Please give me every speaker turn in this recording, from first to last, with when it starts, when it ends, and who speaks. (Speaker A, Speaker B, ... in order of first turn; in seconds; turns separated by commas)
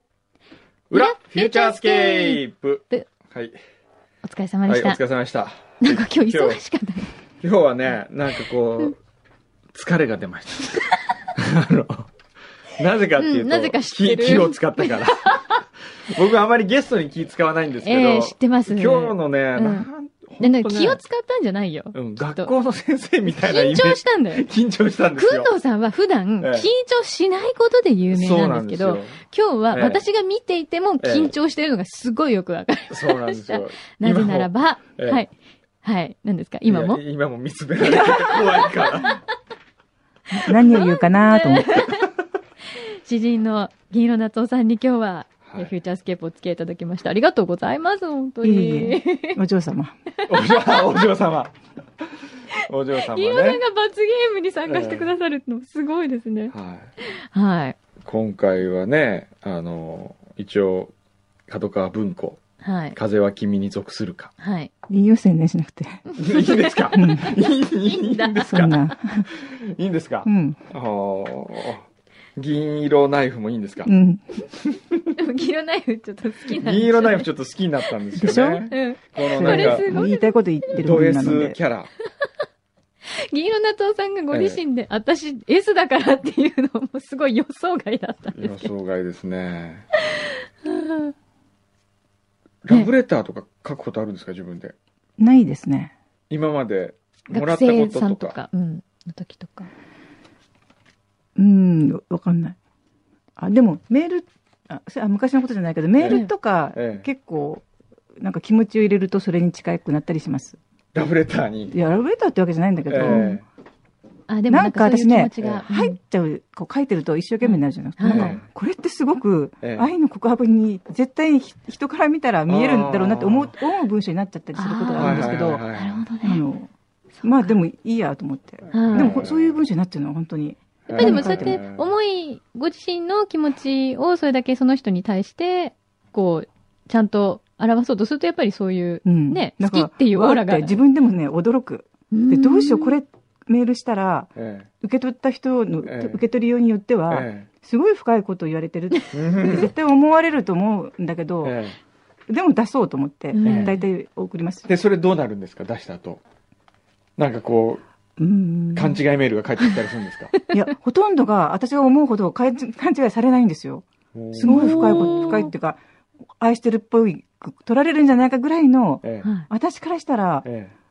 Speaker A: 0.9-3.6, Speaker B: 0.9-3.1, Speaker B: 4.2-5.0, Speaker A: 4.7-6.6, Speaker B: 5.8-7.1, Speaker A: 7.4-8.9, Speaker A: 9.7-10.8, Speaker A: 11.3-12.1, Speaker A: 12.8-15.4, Speaker B: 13.2-15.6, Speaker A: 16.1-21.0, Speaker B: 17.8-22.5, Speaker A: 21.9-25.5, Speaker B: 23.2-24.4, Speaker B: 25.1-35.3, Speaker A: 26.4-26.7, Speaker A: 28.1-29.2, Speaker A: 29.7-30.0, Speaker A: 31.0-31.3, Speaker A: 32.9-35.2, Speaker B: 35.8-37.0, Speaker A: 36.7-39.2, Speaker B: 38.2-38.7, Speaker C: 40.3-41.8, Speaker B: 40.3-42.1, Speaker B: 42.7-49.4, Speaker A: 45.5-45.7, Speaker C: 48.4-50.0, Speaker A: 50.3-51.5, Speaker B: 50.4-50.7, Speaker A: 52.5-53.6, Speaker B: 53.0-57.8, Speaker A: 54.6-55.1, Speaker A: 56.5-56.9, Speaker A: 58.0-60.9, Speaker A: 61.5-62.4, Speaker B: 62.6-63.0, Speaker A: 62.9-64.3, Speaker B: 64.4-64.7, Speaker C: 64.9-66.0, Speaker B: 66.1-67.1, Speaker A: 66.2-73.9, Speaker C: 66.9-67.4, Speaker B: 67.8-68.9, Speaker C: 68.5-69.3, Speaker C: 70.2-70.6, Speaker C: 73.8-74.3, Speaker A: 74.6-75.1, Speaker B: 75.2-77.3, Speaker A: 76.5-80.0, Speaker C: 78.2-81.6, Speaker B: 78.7-80.8, Speaker A: 80.7-81.9, Speaker B: 83.1-88.7, Speaker A: 84.3-84.6, Speaker A: 88.3-89.8, Speaker B: 90.2-91.1, Speaker A: 92.6-94.8, Speaker C: 95.2-95.9, Speaker A: 96.3-98.4, Speaker B: 97.3-99.7, Speaker C: 101.3-102.5, Speaker C: 103.4-107.6, Speaker A: 106.0-107.1, Speaker C: 108.2-110.6, Speaker A: 110.9-111.7, Speaker C: 111.7-113.4, Speaker A: 112.9-113.4, Speaker B: 113.0-113.4, Speaker B: 114.3-116.0, Speaker C: 114.5-125.7, Speaker B: 117.4-118.4, Speaker A: 118.1-118.5, Speaker A: 119.6-119.9, Speaker A: 122.5-123.6, Speaker B: 124.5-126.4, Speaker A: 125.0-126.0, Speaker C: 126.2-126.7, Speaker C: 127.2-131.6, Speaker B: 128.7-129.2, Speaker A: 128.8-129.6, Speaker A: 130.8-131.9, Speaker B: 130.9-140.8, Speaker C: 139.0-151.6, Speaker B: 142.1-143.0, Speaker A: 144.3-144.7, Speaker A: 145.8-146.2, Speaker A: 147.1-147.5, Speaker A: 149.1-149.7, Speaker A: 151.4-151.8, Speaker C: 152.3-154.7, Speaker B: 153.3-153.8, Speaker A: 153.4-153.8, Speaker A: 154.7-156.2, Speaker A: 157.2-157.8, Speaker C: 158.2-159.0, Speaker A: 158.7-160.3, Speaker C: 160.5-165.8, Speaker A: 164.1-165.5, Speaker B: 164.5-165.5, Speaker C: 166.4-170.4, Speaker A: 169.0-169.3, Speaker B: 169.2-169.5, Speaker A: 170.4-170.7